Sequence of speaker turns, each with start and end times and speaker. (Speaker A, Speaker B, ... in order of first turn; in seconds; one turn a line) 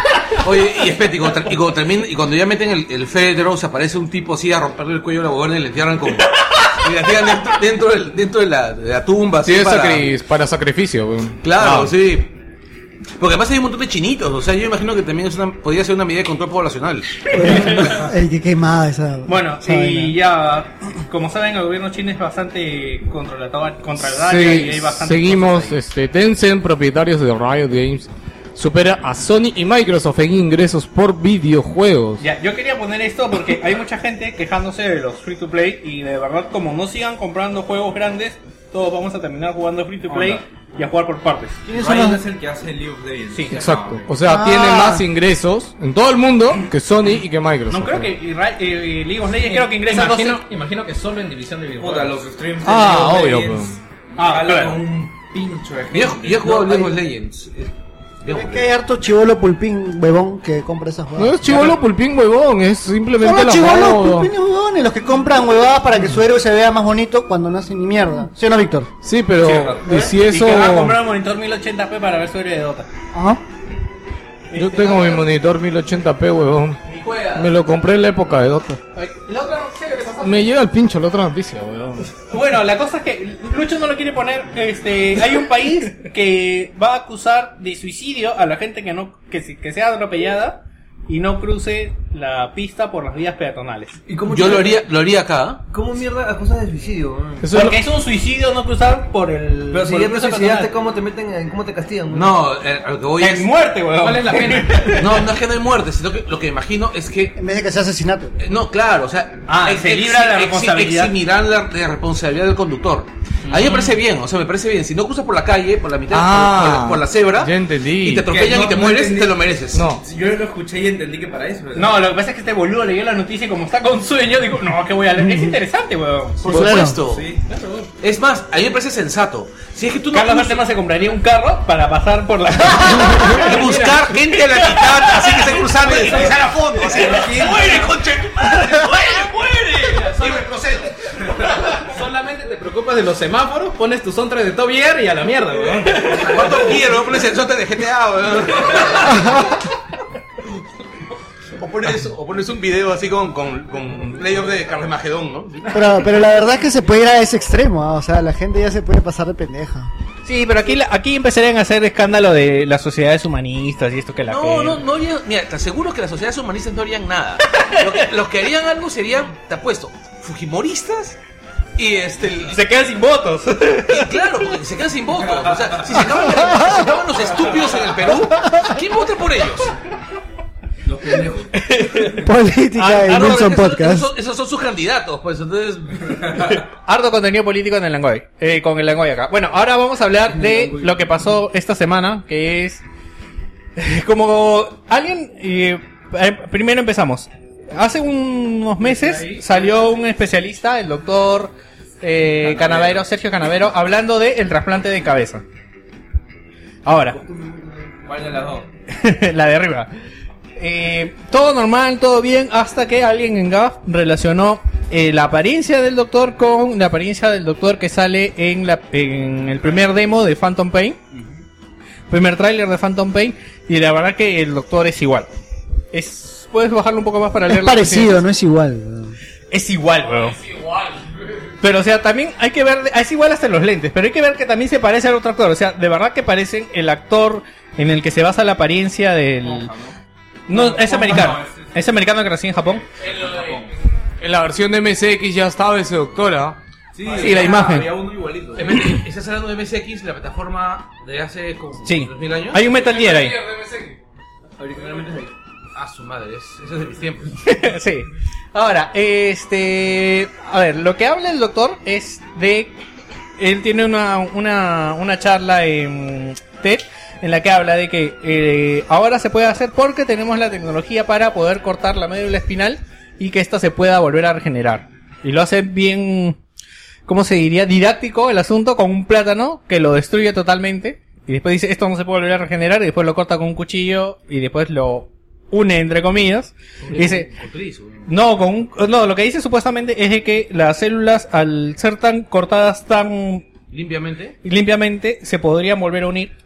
Speaker A: 0.2-10.1
Speaker B: 9.4-11.9
Speaker A: 11.4-12.3
Speaker A: 13.2-17.4
Speaker C: 17.3-20.1
Speaker D: 17.4-18.0
Speaker D: 19.3-25.8
Speaker B: 24.0-32.2
Speaker D: 32.2-41.6
Speaker E: 40.1-40.4
Speaker C: 41.7-42.2
Speaker E: 41.7-44.1
Speaker D: 43.3-43.6
Speaker B: 43.5-48.1
Speaker C: 44.2-45.0
Speaker D: 47.7-50.4
Speaker F: 49.4-52.2
Speaker E: 51.8-57.0
Speaker B: 52.6-53.8
Speaker D: 54.2-54.8
Speaker A: 55.9-57.7
Speaker A: 58.2-58.7
Speaker C: 58.3-61.6
Speaker B: 61.1-64.3
Speaker C: 63.2-68.9
Speaker B: 69.0-71.0
Speaker D: 69.4-72.9
Speaker C: 73.1-73.4
Speaker D: 74.5-75.2
Speaker B: 74.5-76.8
Speaker B: 77.3-78.8
Speaker D: 79.0-80.5
Speaker B: 80.2-82.0
Speaker D: 82.3-93.9
Speaker G: 94.1-94.8
Speaker A: 94.2-95.6
Speaker G: 95.7-97.5
Speaker B: 97.4-97.8
Speaker D: 97.5-100.7
Speaker G: 99.7-102.5
Speaker A: 102.1-103.5
Speaker D: 103.2-105.2
Speaker A: 104.0-107.3
Speaker C: 107.3-108.4
Speaker A: 108.4-119.9
Speaker D: 109.5-111.1
Speaker F: 113.5-113.9
Speaker B: 116.1-118.3
Speaker E: 118.2-121.9
Speaker B: 119.7-120.0
Speaker D: 121.7-126.5
Speaker C: 125.2-125.5
Speaker A: 126.4-127.3
Speaker C: 126.4-127.0
Speaker E: 127.0-127.4
Speaker F: 127.5-127.9
Speaker A: 128.0-130.6
Speaker D: 130.1-133.8
Speaker A: 133.1-140.9
Speaker F: 133.5-134.0
Speaker D: 134.8-135.2
Speaker E: 135.8-136.4
Speaker G: 137.0-137.8
Speaker F: 139.7-140.5
Speaker F: 141.3-146.3
Speaker E: 145.5-146.1
Speaker A: 145.8-149.4
Speaker C: 149.0-149.5
Speaker A: 151.6-156.0
Speaker C: 155.7-159.9
Speaker D: 160.2-164.8
Speaker A: 164.3-171.2
Speaker D: 167.5-167.9
Speaker A: 171.8-172.6
Speaker D: 172.5-174.2
Speaker A: 173.9-179.7
Speaker E: 175.2-176.0
Speaker E: 177.3-177.7
Speaker E: 180.8-181.6
Speaker D: 181.6-182.2
Speaker C: 181.8-184.1
Speaker D: 182.7-183.4
Speaker A: 183.0-186.4
Speaker D: 186.3-192.8
Speaker D: 193.8-205.4
Speaker E: 202.4-203.0
Speaker D: 206.8-207.2
Speaker G: 207.2-208.1
Speaker E: 208.0-208.7
Speaker D: 208.9-209.9
Speaker D: 210.6-221.0
Speaker E: 221.1-221.4
Speaker D: 222.1-225.3
Speaker D: 225.9-228.2
Speaker C: 227.5-229.1
Speaker D: 229.5-230.4
Speaker B: 230.0-231.5
Speaker D: 231.6-239.7
Speaker E: 239.4-240.0
Speaker D: 240.5-242.8
Speaker E: 240.5-242.0
Speaker E: 243.0-243.7
Speaker B: 243.0-246.6
Speaker E: 246.9-248.8
Speaker D: 247.2-247.9
Speaker A: 248.6-252.7
Speaker D: 251.8-253.4
Speaker B: 252.7-254.0
Speaker G: 254.6-255.3
Speaker A: 255.7-257.4
Speaker D: 257.4-262.7
Speaker D: 263.4-276.4
Speaker D: 277.1-287.3
Speaker A: 286.8-288.1
Speaker D: 288.1-293.4
Speaker A: 293.7-294.4
Speaker D: 294.4-296.3